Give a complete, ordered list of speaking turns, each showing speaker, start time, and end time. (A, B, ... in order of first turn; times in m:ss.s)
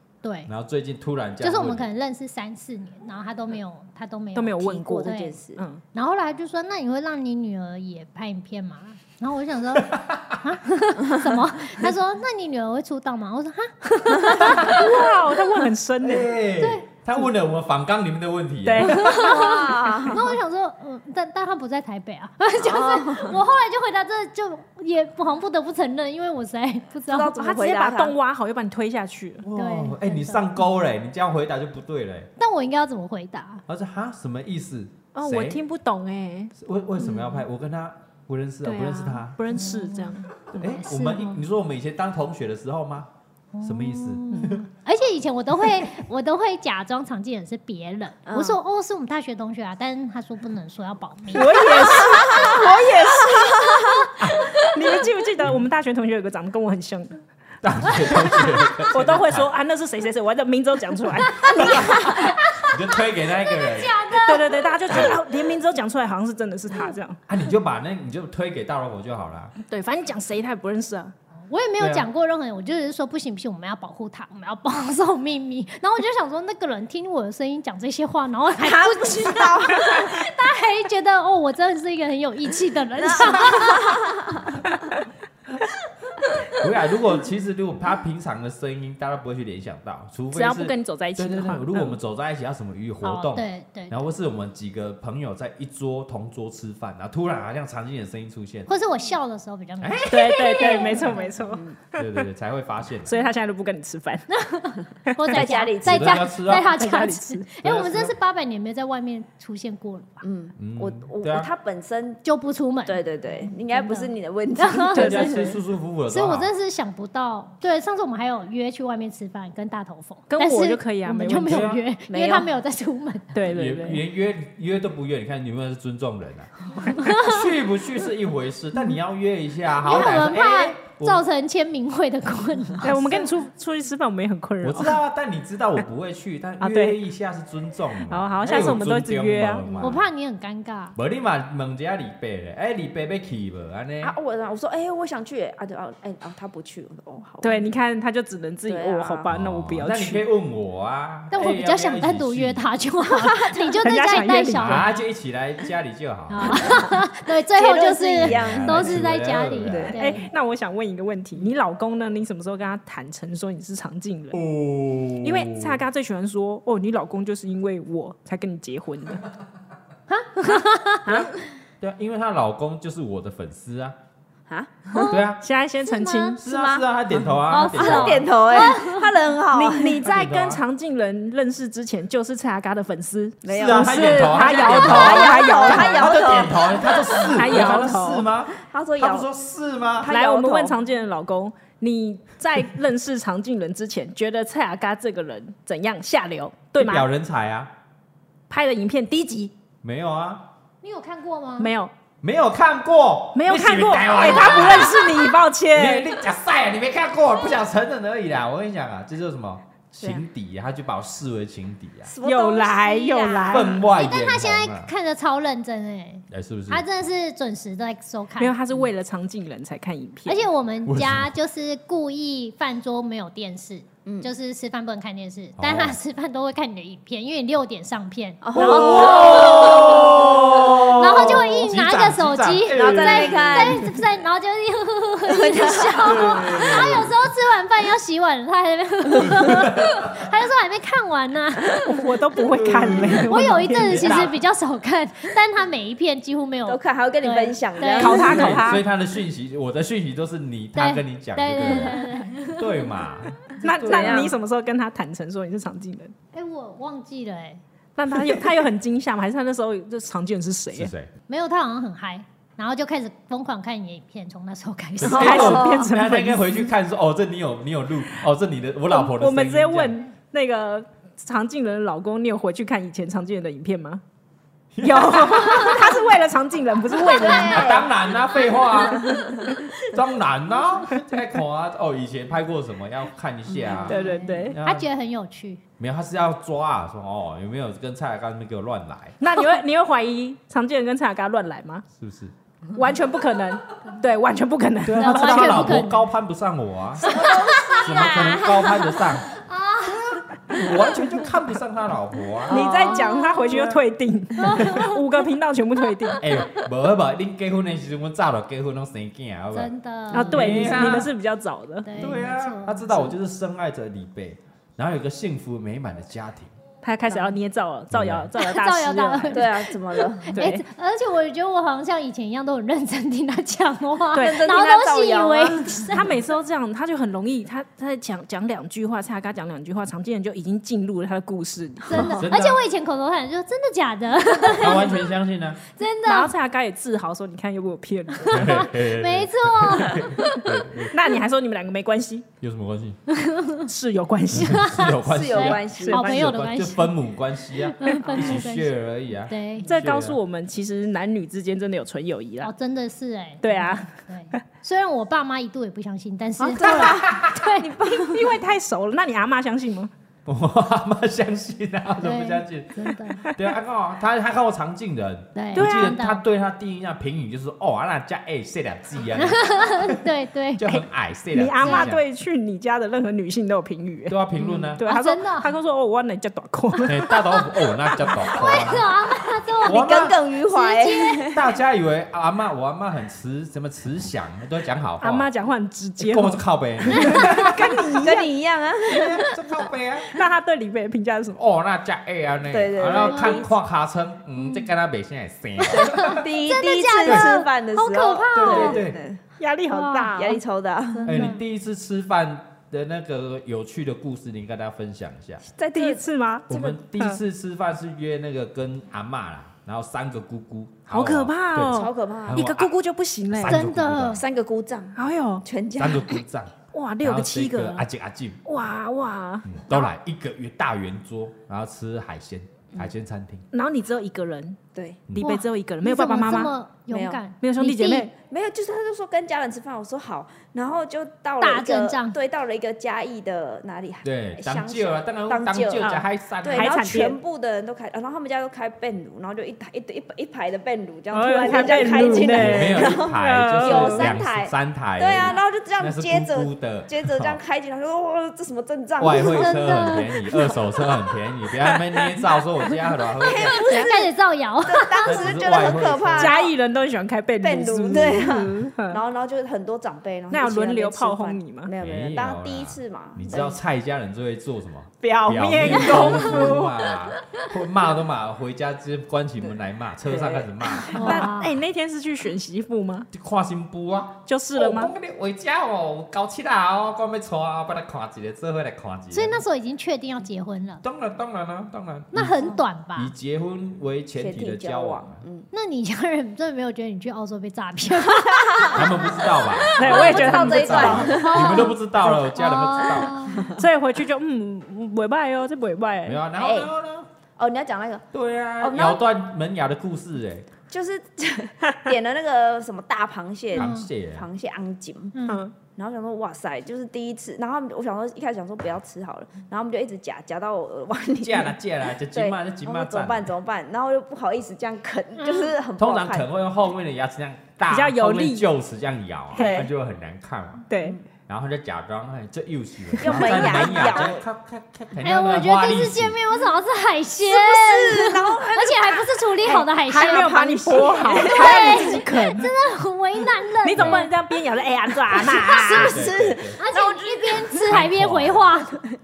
0:00.2-0:00.5 A
0:00.5-0:01.9 B
0:01.4-0:05.4 A
0:04.3-0:05.8 C
0:04.6-0:05.6 D
0:05.9-0:14.9 A
0:09.7-0:10.4 B
0:14.4-0:16.3 C
0:16.0-0:19.0 B
0:16.6-0:16.8 A
0:18.6-0:19.6 C
0:18.9-0:27.3 A
0:19.1-0:20.4 D
0:22.6-0:23.4 D
0:27.1-0:28.2 D
0:27.3-0:29.4 C
0:29.4-0:32.3 B
0:29.5-0:30.5 A
0:32.4-0:33.6 A
0:33.7-0:35.6 B
0:35.1-0:36.5 C
0:36.5-0:39.4 B
0:38.6-0:40.3 C
0:39.5-0:41.4 A
0:40.5-0:43.1 B
0:43.5-0:52.1 A
0:43.6-0:44.6 B
0:44.3-0:44.6 C
0:48.2-0:48.6 D
0:51.3-0:53.8 C
0:51.7-0:54.1 D
0:54.2-0:54.4 B
0:54.5-0:57.2 C
0:57.6-0:59.5 B
0:58.0-1:02.0 C
1:01.4-1:02.2 D
1:01.5-1:04.0 B
1:01.8-1:05.2 A
1:04.2-1:07.2 C
1:04.9-1:05.2 B
1:07.3-1:09.5 B
1:09.7-1:11.1 C
1:11.5-1:24.0 A
1:11.8-1:12.1 B
1:18.6-1:20.2 D
1:23.0-1:24.4 D
1:26.5-1:38.7 B
1:30.3-1:32.0 C
1:33.0-1:34.0 A
1:38.7-1:41.4 A
1:39.8-1:41.1 B
1:40.1-1:42.2 C
1:41.5-1:41.8 D
1:41.9-1:43.2 B
1:43.0-1:44.3 C
1:44.3-1:50.2 A
1:45.1-1:45.5 C
1:45.3-1:46.2 D
1:45.8-1:46.8 B
1:46.4-1:47.5 C
1:47.6-1:48.1 B
1:50.2-1:52.2 D
1:50.6-1:51.5 B
1:52.2-1:55.5 A
1:52.8-1:55.5 D
1:54.9-1:56.5 B
1:56.1-2:03.3 A
2:00.3-2:01.7 C
2:01.4-2:01.8 B
2:02.1-2:02.5 D
2:03.3-2:04.0 C
2:03.4-2:11.2 B
2:07.0-2:07.3 A
2:09.8-2:13.2 A
2:12.8-2:15.0 C
2:14.6-2:20.0 B
2:16.6-2:17.0 C
2:18.1-2:19.7 C
2:19.6-2:19.9 D
2:19.8-2:21.0 A
2:20.9-2:24.1 B
2:24.0-2:27.8 D
2:27.4-2:30.2 C
2:28.7-2:29.3 D
2:29.3-2:32.6 B
2:31.3-2:34.9 A
2:33.0-2:33.9 D
2:33.8-2:34.8 C
2:34.6-2:36.8 B
2:36.3-2:40.2 A
2:36.4-2:36.9 D
2:37.5-2:39.0 D
2:38.2-2:39.9 B
2:39.6-2:40.3 D
2:39.9-2:44.4 C
2:44.3-2:45.8 B
2:45.2-2:49.2 C
2:50.1-2:51.2 A
2:51.0-2:51.3 D
2:51.8-2:54.0 B
2:54.5-2:55.2 D
2:55.1-2:55.4 B
2:55.4-2:56.4 C
2:55.8-2:56.4 A
2:56.4-2:58.3 B
2:56.4-3:00.0 D
2:57.5-2:59.1 A
2:59.5-3:06.2 C
3:00.0-3:00.6 B
3:03.4-3:07.8 D
3:03.5-3:10.1 B
3:07.2-3:08.2 C
3:08.5-3:09.3 D
3:10.0-3:10.7 D
3:10.0-3:17.1 C
3:16.8-3:17.7 B
3:18.5-3:19.5 C
3:19.8-3:20.4 B
3:20.8-3:21.7 A
3:21.6-3:21.9 C
3:22.2-3:32.1 B
3:23.3-3:26.1 C
3:30.0-3:30.2 D
3:32.0-3:33.8 D
3:32.2-3:33.8 C
3:33.5-3:34.9 B
3:33.9-3:38.5 A
3:36.3-3:36.8 B
3:38.4-3:40.5 C
3:40.2-3:50.1 A
3:40.8-3:41.3 B
3:44.0-3:44.3 D
3:45.6-3:46.0 B
3:48.4-3:51.4 D
3:48.5-3:53.9 B
3:50.9-4:01.9 A
3:52.7-3:53.9 D
3:55.3-3:57.0 D
3:56.0-3:57.1 B
3:59.4-4:00.0 B
4:01.8-4:04.2 C
4:02.5-4:04.4 B
4:03.3-4:08.6 A
4:06.6-4:08.7 D
4:08.0-4:08.8 C
4:08.2-4:14.3 B
4:10.8-4:12.7 A
4:13.6-4:16.1 C
4:13.8-4:14.4 D
4:16.3-4:17.6 A
4:18.0-4:20.9 C
4:20.7-4:21.1 B
4:21.3-4:25.6 A
4:25.0-4:30.0 B
4:25.0-4:26.7 C
4:25.0-4:25.9 D
4:28.9-4:34.0 C
4:34.7-4:35.8 B
4:34.8-4:37.8 C
4:37.0-4:37.9 D
4:37.3-4:39.2 B
4:38.5-4:39.6 D
4:39.0-4:39.5 C
4:39.9-4:44.9 B
4:43.5-4:44.0 D
4:43.9-4:44.6 C
4:43.9-4:45.6 A
4:45.8-4:49.2 B
4:49.2-4:51.8 C
4:52.0-4:52.3 B
4:52.7-4:55.8 C
4:54.8-4:57.2 B
4:55.0-4:56.0 A
4:57.0-4:58.4 A
4:57.0-4:59.0 D
4:57.8-4:59.3 B
4:59.3-5:00.2 A
5:00.5-5:02.6 B
5:02.5-5:03.0 D
5:02.5-5:03.7 A
5:02.5-5:06.2 C
5:04.4-5:05.0 A
5:06.2-5:11.1 B
5:09.5-5:11.0 A
5:10.1-5:11.9 C
5:11.8-5:13.1 A
5:12.0-5:16.5 B
5:16.8-5:19.6 C
5:17.9-5:18.3 B
5:18.4-5:26.0 A
5:19.3-5:20.4 D
5:20.3-5:20.6 C
5:24.1-5:24.5 C
5:24.1-5:25.9 D
5:25.8-5:32.2 C
5:31.9-5:35.0 A
5:31.9-5:32.2 D
5:31.9-5:32.6 B
5:34.5-5:35.6 B
5:35.7-5:36.3 A
5:36.0-5:38.5 C
5:38.2-5:40.8 A
5:38.3-5:40.9 B
5:40.9-5:42.3 C
5:42.4-5:43.0 B
5:43.1-5:43.7 A
5:43.6-5:44.8 C
5:44.3-5:50.2 B
5:44.4-5:46.9 A
5:45.0-5:46.3 D
5:47.6-5:48.7 A
5:48.0-5:48.4 D
5:49.3-5:49.7 A
5:49.6-5:52.5 C
5:52.4-5:57.7 A
5:53.4-5:54.4 C
5:56.4-5:58.4 D
5:56.6-5:57.4 B
5:57.8-5:59.9 C
6:00.2-6:10.0 B
6:02.0-6:03.2 A
6:05.3-6:06.2 A
6:05.5-6:05.9 C
6:09.1-6:10.6 A
6:10.6-6:12.0 B
6:10.6-6:14.2 C
6:11.6-6:11.9 A
6:14.1-6:14.8 B
6:14.4-6:14.7 D
6:14.8-6:17.2 C
6:14.8-6:15.5 A
6:16.8-6:18.9 B
6:18.3-6:21.3 A
6:19.6-6:20.2 B
6:19.6-6:21.4 D
6:21.3-6:25.3 B
6:25.0-6:28.3 C
6:26.0-6:27.6 B
6:26.9-6:27.6 A
6:27.9-6:29.2 D
6:28.9-6:30.1 B
6:30.1-6:31.4 C
6:31.3-6:36.2 B
6:32.5-6:33.5 D
6:32.8-6:33.4 A
6:35.6-6:38.8 A
6:35.7-6:39.2 D
6:37.0-6:37.3 B
6:38.3-6:39.0 B
6:39.4-6:40.4 C
6:39.7-6:40.3 A
6:40.1-6:41.3 D
6:40.9-6:41.4 A
6:41.0-6:45.4 B
6:45.5-6:46.7 D
6:45.7-6:47.2 C
6:46.5-6:52.7 B
6:50.9-6:53.6 C
6:51.7-6:52.4 D
6:53.3-6:54.2 B
6:53.5-6:54.2 A
6:54.1-6:56.2 D
6:55.0-6:55.4 C
6:55.8-6:58.4 B
6:56.7-6:57.8 C
6:58.4-6:59.8 C
6:59.5-7:03.4 B
7:03.5-7:04.6 C
7:04.7-7:05.0 D
7:05.1-7:06.5 C
7:05.2-7:08.1 A
7:06.9-7:07.2 D
7:07.4-7:08.1 C
7:08.2-7:29.9 D
7:11.4-7:12.2 A
7:14.0-7:16.8 B
7:15.8-7:17.2 C
7:21.1-7:24.1 C
7:22.1-7:27.4 B
7:29.0-7:33.6 B
7:29.0-7:30.4 A
7:33.2-7:34.1 D
7:33.6-7:35.2 A
7:34.6-7:36.5 D
7:35.0-7:36.4 B
7:36.1-7:39.0 C
7:37.4-7:43.6 D
7:40.3-7:41.7 C
7:41.8-7:51.2 B
7:45.0-7:46.9 C
7:45.7-7:46.6 D
7:50.1-7:51.3 D
7:50.1-7:53.1 C
7:50.9-7:51.6 A
7:53.1-7:59.4 B
7:54.2-7:54.9 C
7:59.1-8:00.8 A
8:00.8-8:05.2 B
8:02.1-8:03.1 A
8:04.2-8:05.5 D
8:05.5-8:10.2 A
8:08.0-8:12.2 D
8:08.7-8:13.4 B
8:09.8-8:11.3 C
8:10.9-8:13.5 A
8:13.0-8:13.6 D
8:13.6-8:16.2 C
8:16.0-8:17.1 B
8:16.4-8:16.7 D
8:17.4-8:18.0 D
8:18.1-8:20.5 B
8:18.6-8:19.0 D
8:20.7-8:25.1 D
8:23.5-8:24.2 B
8:23.5-8:23.9 A
8:25.1-8:25.4 A
8:25.3-8:25.5 C
8:25.6-8:31.6 D
8:31.2-8:33.3 B
8:32.1-8:36.2 D
8:35.2-8:35.5 A
8:35.8-8:40.6 B
8:37.7-8:38.5 C
8:39.3-8:39.7 C
8:39.3-8:39.7 D
8:40.7-8:41.0 C
8:41.3-8:46.2 B
8:42.9-8:43.9 C
8:43.0-8:44.2 D
8:45.0-8:50.4 A
8:47.2-8:52.0 D
8:49.4-8:52.5 C
8:51.1-8:54.1 A
8:53.6-8:56.0 C
8:53.7-8:54.0 B
8:55.1-8:58.8 A
8:55.6-8:57.7 D
8:55.8-8:56.6 B
8:57.6-8:58.5 B